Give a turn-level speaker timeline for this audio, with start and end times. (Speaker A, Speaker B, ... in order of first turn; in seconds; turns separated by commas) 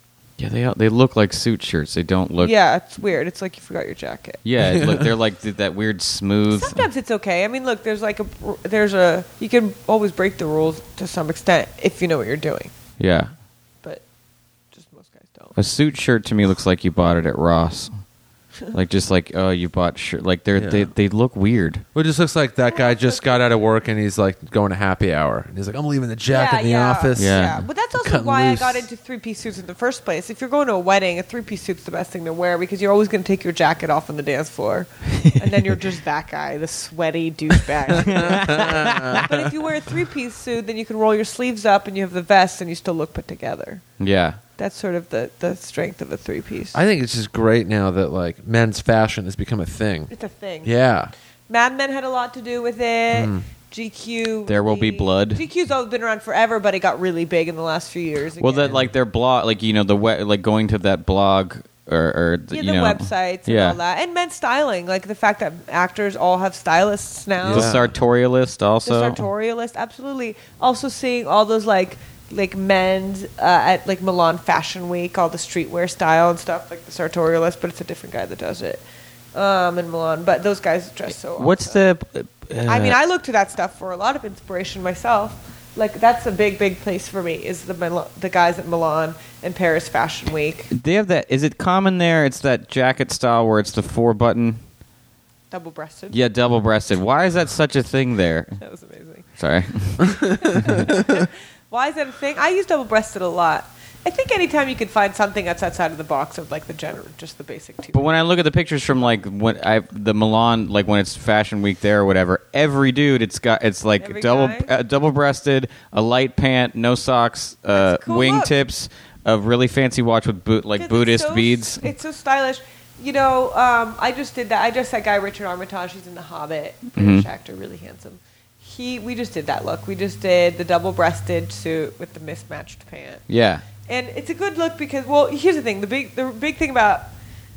Speaker A: 0.4-2.5, Speaker B: 2.4-4.4, Speaker A: 4.4-6.8, Speaker C: 4.6-5.1, Speaker B: 6.5-12.7, Speaker A: 13.0-13.3, Speaker B: 14.7-15.6, Speaker A: 15.6-17.9, Speaker A: 18.7-21.8, Speaker C: 20.6-20.9, Speaker C: 21.9-28.9, Speaker B: 22.7-23.6, Speaker B: 26.3-43.8, Speaker A: 27.2-27.6, Speaker A: 38.0-39.2, Speaker C: 38.1-39.3, Speaker A: 44.0-44.4, Speaker B: 44.6-46.8, Speaker C: 46.7-50.1, Speaker B: 50.1-50.8, Speaker C: 50.6-51.1, Speaker B: 51.5-58.8, Speaker C: 53.1-53.5, Speaker A: 54.5-55.4, Speaker A: 58.4-63.8, Speaker B: 62.5-67.8, Speaker C: 67.4-67.9, Speaker A: 67.5-69.3, Speaker B: 68.8-78.8, Speaker B: 79.3-81.8, Speaker A: 81.4-83.0, Speaker B: 82.7-90.7, Speaker A: 90.7-94.6, Speaker B: 95.5-96.2, Speaker A: 96.1-98.6, Speaker B: 98.6-99.3, Speaker A: 99.4-100.8, Speaker B: 100.0-108.1, Speaker A: 107.9-121.9, Speaker B: 114.0-114.7, Speaker B: 117.7-118.5, Speaker B: 120.8-133.2, Speaker A: 127.0-127.3, Speaker A: 133.3-133.6, Speaker B: 133.9-137.1